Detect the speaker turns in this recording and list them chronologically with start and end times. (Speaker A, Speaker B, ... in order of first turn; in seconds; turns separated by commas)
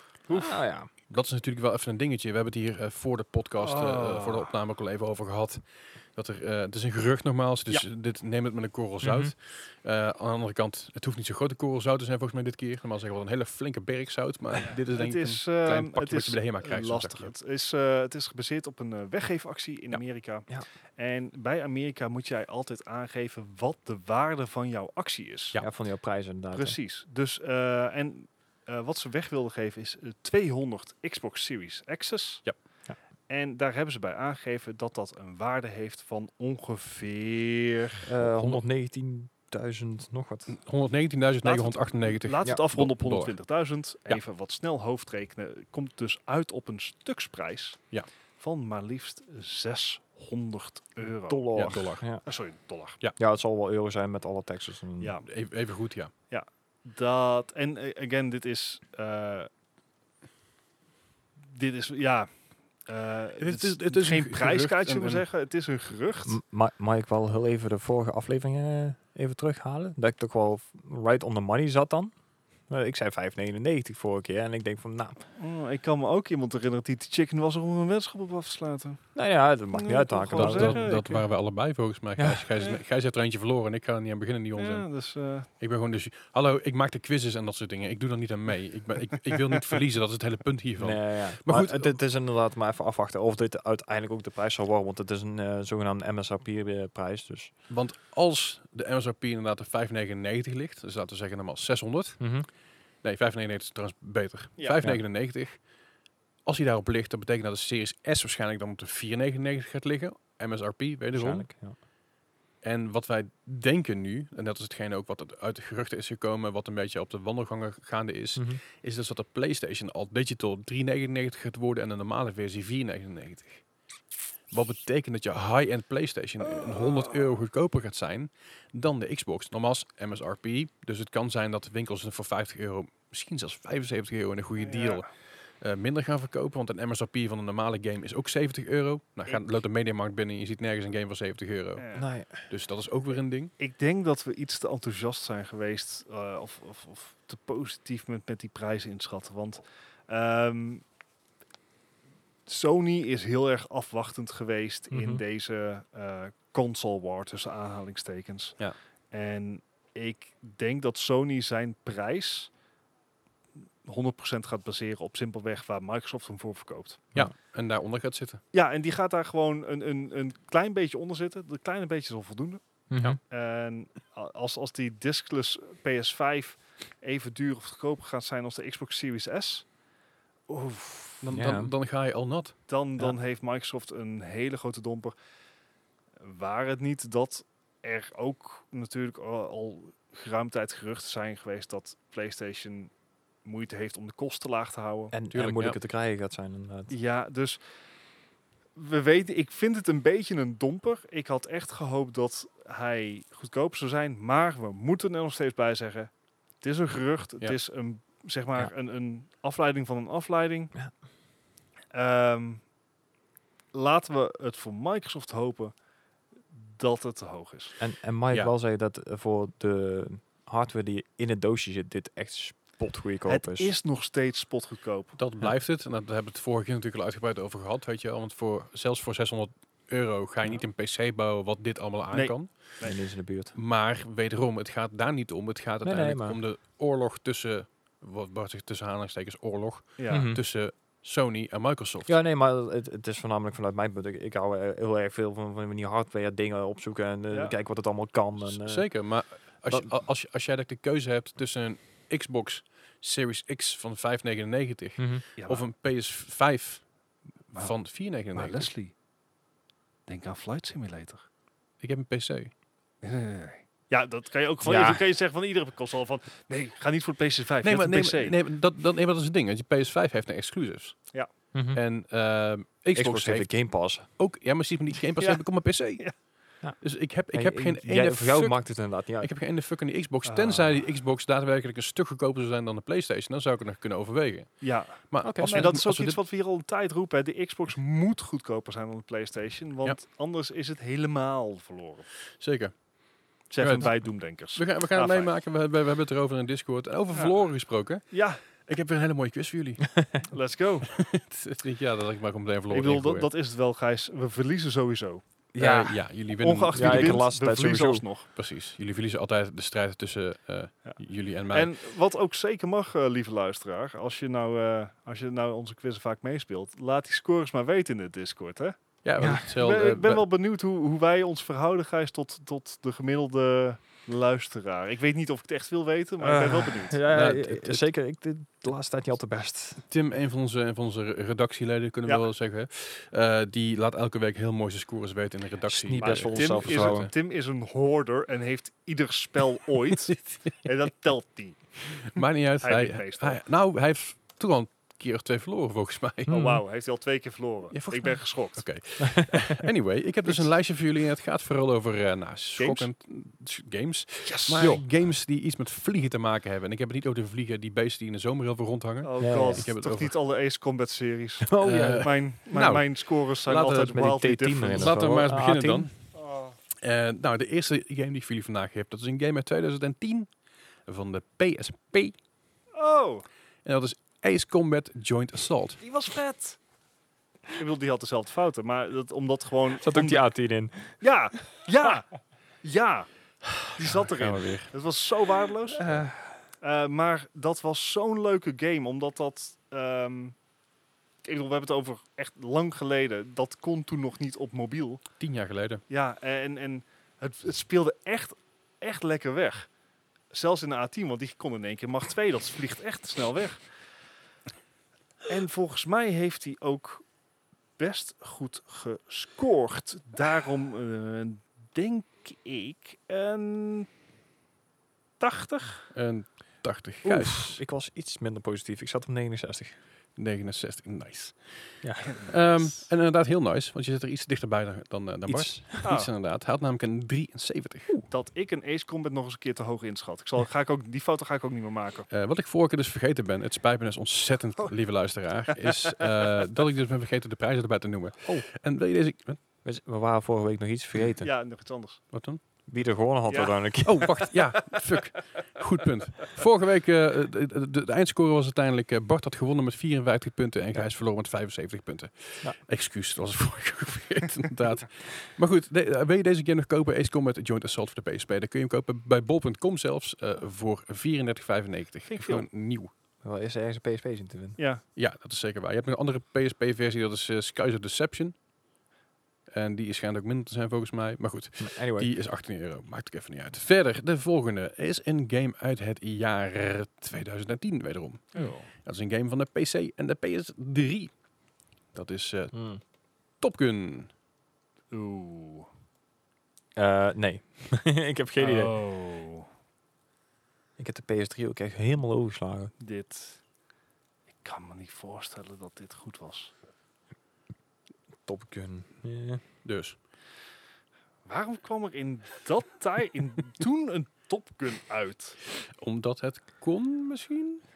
Speaker A: 0.3-0.6, Speaker B: 0.3-0.9, Speaker C: 1.1-17.3, Speaker A: 3.6-4.5, Speaker B: 9.0-9.3, Speaker A: 14.7-25.6, Speaker B: 25.6-26.8, Speaker A: 26.5-32.6, Speaker A: 33.3-38.0, Speaker B: 38.0-40.5, Speaker C: 38.2-38.6, Speaker C: 40.5-43.4, Speaker A: 41.4-47.9, Speaker A: 48.4-53.0, Speaker B: 51.3-52.2, Speaker C: 51.5-52.1, Speaker B: 53.2-55.2, Speaker A: 55.0-55.3, Speaker C: 55.3-56.1, Speaker A: 56.3-59.5, Speaker A: 61.4-62.3, Speaker A: 62.9-66.4, Speaker C: 63.4-65.2, Speaker B: 66.2-72.1, Speaker B: 72.7-75.2, Speaker A: 75.4-79.1, Speaker B: 79.2-81.0, Speaker A: 79.7-81.2, Speaker C: 80.3-84.9, Speaker B: 82.2-82.5, Speaker A: 84.6-85.5, Speaker C: 85.6-92.0, Speaker B: 90.8-97.5, Speaker C: 97.7-102.3, Speaker B: 102.2-102.5, Speaker C: 103.0-105.7, Speaker C: 106.4-111.5, Speaker B: 111.1-111.8, Speaker C: 112.6-123.7, Speaker B: 118.4-118.6, Speaker C: 124.5-143.5, Speaker A: 126.7-127.0, Speaker A: 134.6-135.1, Speaker A: 141.8-142.1, Speaker B: 141.9-142.5, Speaker A: 143.6-150.8, Speaker A: 152.5-162.5, Speaker B: 154.9-155.2, Speaker A: 163.8-167.1, Speaker C: 167.2-168.4, Speaker A: 168.5-179.7, Speaker B: 172.9-173.2, Speaker A: 180.5-181.2, Speaker C: 181.2-182.6, Speaker B: 181.3-181.7, Speaker A: 182.7-185.2, Speaker A: 186.2-192.9, Speaker A: 193.4-195.1, Speaker B: 195.1-196.9, Speaker C: 195.3-195.8, Speaker A: 196.9-197.6, Speaker A: 198.8-210.7, Speaker A: 211.9-212.7, Speaker A: 213.7-215.8, Speaker A: 216.5-217.8, Speaker B: 217.8-223.7, Speaker A: 223.3-225.2, Speaker C: 225.2-232.8, Speaker A: 232.1-233.0, Speaker B: 232.8-233.5, Speaker C: 233.5-242.2, Speaker B: 235.8-236.4, Speaker A: 240.0-240.3, Speaker B: 240.1-240.4, Speaker B: 242.1-249.1, Speaker A: 247.3-247.6, Speaker C: 248.4-258.7, Speaker B: 255.0-255.2, Speaker A: 255.4-255.7, Speaker A: 257.5-258.9, Speaker A: 260.1-261.2, Speaker C: 261.8-262.5, Speaker A: 263.0-268.4, Speaker B: 264.6-265.0, Speaker C: 267.6-271.1, Speaker B: 271.5-271.8, Speaker C: 271.7-286.2, Speaker B: 272.9-274.1, Speaker A: 275.2-276.1, Speaker B: 276.6-279.3, Speaker A: 280.2-280.9, Speaker A: 284.6-292.1, Speaker B: 285.2-285.7, Speaker C: 292.4-292.9, Speaker C: 293.5-300.4, Speaker A: 293.5-295.3, Speaker A: 297.1-297.4, Speaker A: 298.1-298.4, Speaker A: 300.3-301.1, Speaker C: 300.9-303.3, Speaker A: 302.7-305.2, Speaker B: 305.5-308.1, Speaker C: 305.6-307.3, Speaker A: 306.4-308.3, Speaker C: 308.3-311.7, Speaker A: 310.8-327.0, Speaker C: 319.0-320.3, Speaker B: 319.2-319.5, Speaker B: 326.2-329.9, Speaker C: 327.1-327.9, Speaker C: 329.9-337.1, Speaker B: 335.7-337.1, Speaker A: 336.0-342.1, Speaker C: 342.1-346.4, Speaker A: 342.6-343.4, Speaker B: 346.3-346.6, Speaker A: 346.3-348.8, Speaker C: 347.7-360.1, Speaker A: 352.6-352.9, Speaker A: 354.2-354.8, Speaker A: 359.0-365.0, Speaker B: 359.2-359.7, Speaker B: 361.5-362.1, Speaker C: 361.6-364.0, Speaker B: 363.9-365.9, Speaker C: 364.7-366.1, Speaker A: 366.1-366.6, Speaker C: 366.8-370.3, Speaker C: 370.8-372.2, Speaker A: 372.7-373.3, Speaker C: 373.6-375.8, Speaker A: 375.8-376.6, Speaker A: 377.5-380.4, Speaker B: 379.8-381.1, Speaker A: 381.0-390.4, Speaker C: 383.9-384.7, Speaker B: 385.8-386.4, Speaker C: 385.8-386.1, Speaker A: 391.2-395.2, Speaker C: 395.2-395.8, Speaker A: 395.9-399.7, Speaker A: 400.3-403.7, Speaker A: 405.3-407.1, Speaker A: 407.8-413.9, Speaker A: 415.2-415.9, Speaker C: 415.9-417.6, Speaker B: 417.0-419.8, Speaker C: 420.2-428.1, Speaker B: 421.8-422.2, Speaker A: 422.1-422.7, Speaker B: 425.3-425.9, Speaker A: 425.8-426.1, Speaker A: 428.1-432.1, Speaker C: 432.1-439.4, Speaker B: 439.6-441.3, Speaker A: 441.2-442.1, Speaker C: 442.1-442.4, Speaker B: 442.7-444.4, Speaker A: 443.3-444.3, Speaker C: 443.9-462.9, Speaker A: 462.1-462.5, Speaker B: 463.2-464.6, Speaker A: 464.6-464.8, Speaker C: 464.9-468.4, Speaker C: 469.5-481.3, Speaker B: 471.6-472.2, Speaker A: 478.4-478.7, Speaker C: 481.9-484.1, Speaker B: 482.5-482.8, Speaker A: 484.9-485.7, Speaker B: 486.8-488.8, Speaker A: 488.4-489.5, Speaker B: 490.8-492.7, Speaker A: 492.8-493.4, Speaker A: 494.4-496.5, Speaker B: 498.2-499.4, Speaker C: 499.6-500.0, Speaker A: 501.2-505.4, Speaker C: 505.8-507.6